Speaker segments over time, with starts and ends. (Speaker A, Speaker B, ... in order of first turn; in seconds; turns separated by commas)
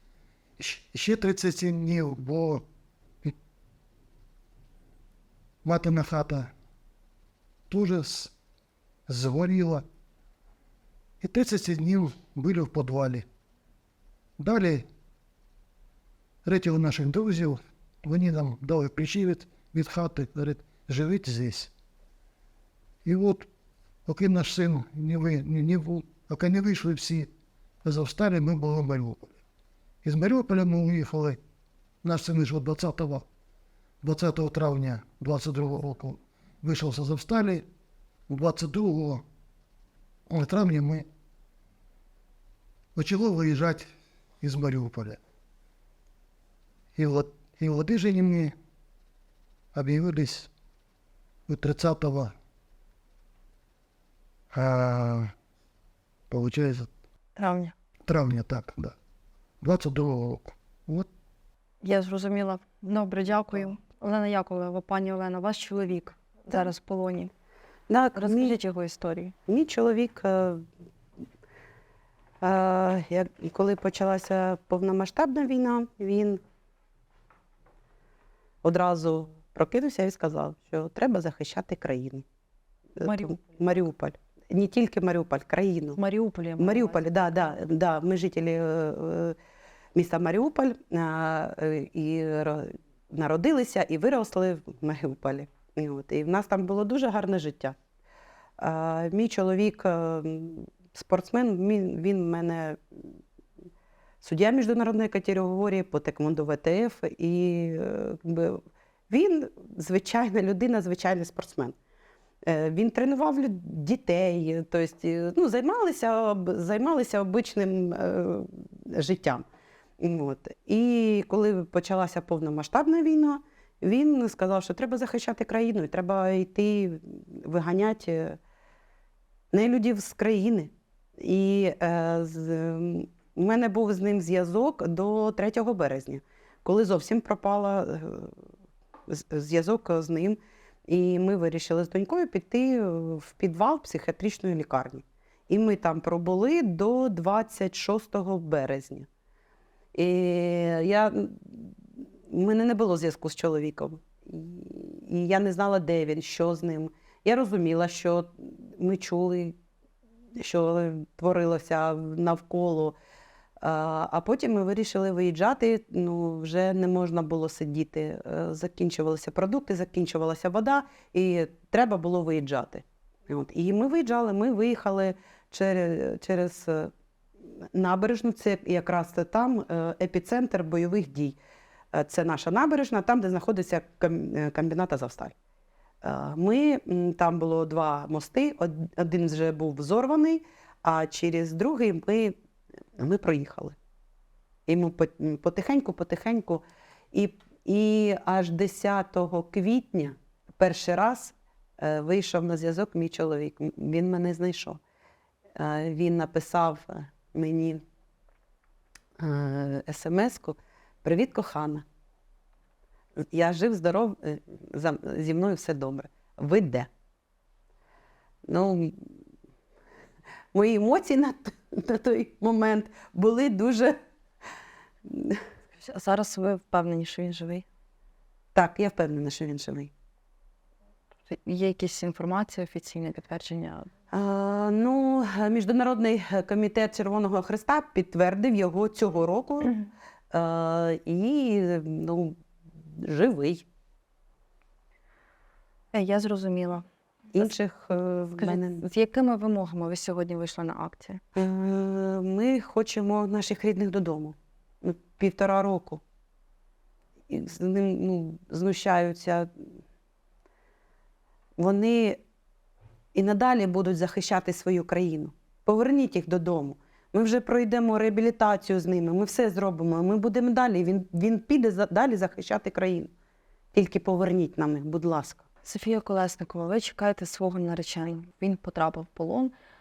Speaker A: 0.6-2.6, Speaker A: 5.6-6.5, Speaker A: 7.7-8.3, Speaker A: 9.1-9.8, Speaker A: 11.2-13.3, Speaker A: 14.4-14.9, Speaker A: 16.4-21.7, Speaker A: 23.1-23.5, Speaker A: 24.1-27.3, Speaker A: 27.9-29.4, Speaker A: 30.0-31.4, Speaker A: 32.0-33.2, Speaker A: 34.0-37.6, Speaker A: 38.3-39.2, Speaker A: 40.3-41.1, Speaker A: 43.0-45.2, Speaker A: 47.0-48.5, Speaker A: 49.7-50.5, Speaker A: 51.5-52.3, Speaker A: 54.5-55.3, Speaker A: 56.3-56.9, Speaker B: 57.4-57.7, Speaker A: 58.1-59.0, Speaker A: 59.6-61.1, Speaker B: 61.8-67.3, Speaker C: 67.9-68.6, Speaker B: 68.2-69.3, Speaker C: 69.5-70.7, Speaker C: 72.4-76.4, Speaker C: 78.6-82.2, Speaker C: 83.0-86.0, Speaker B: 83.0-83.4, Speaker B: 86.0-87.2, Speaker C: 86.6-89.4, Speaker C: 90.0-97.8, Speaker C: 98.6-103.0, Speaker C: 104.2-111.8, Speaker C: 112.5-119.5, Speaker C: 120.0-128.4, Speaker C: 129.5-138.3, Speaker C: 139.1-149.1, Speaker C: 149.9-159.6, Speaker C: 160.4-163.0, Speaker C: 163.6-176.9, Speaker C: 177.6-181.4, Speaker C: 181.9-185.3, Speaker C: 186.0-192.4, Speaker C: 193.0-193.8, Speaker C: 194.7-204.8, Speaker C: 205.6-207.8, Speaker C: 209.2-211.8, Speaker C: 213.3-216.9, Speaker C: 218.5-219.1, Speaker C: 220.5-224.0, Speaker C: 225.1-225.4, Speaker B: 225.8-227.7, Speaker C: 228.5-229.9, Speaker B: 231.3-233.9, Speaker C: 234.1-239.8, Speaker C: 240.3-243.7, Speaker B: 245.9-246.8, Speaker C: 247.3-248.8, Speaker B: 248.4-251.2, Speaker C: 251.3-256.0, Speaker C: 257.3-259.7, Speaker C: 261.6-262.2, Speaker C: 263.1-273.1, Speaker C: 273.7-275.4, Speaker B: 275.6-279.5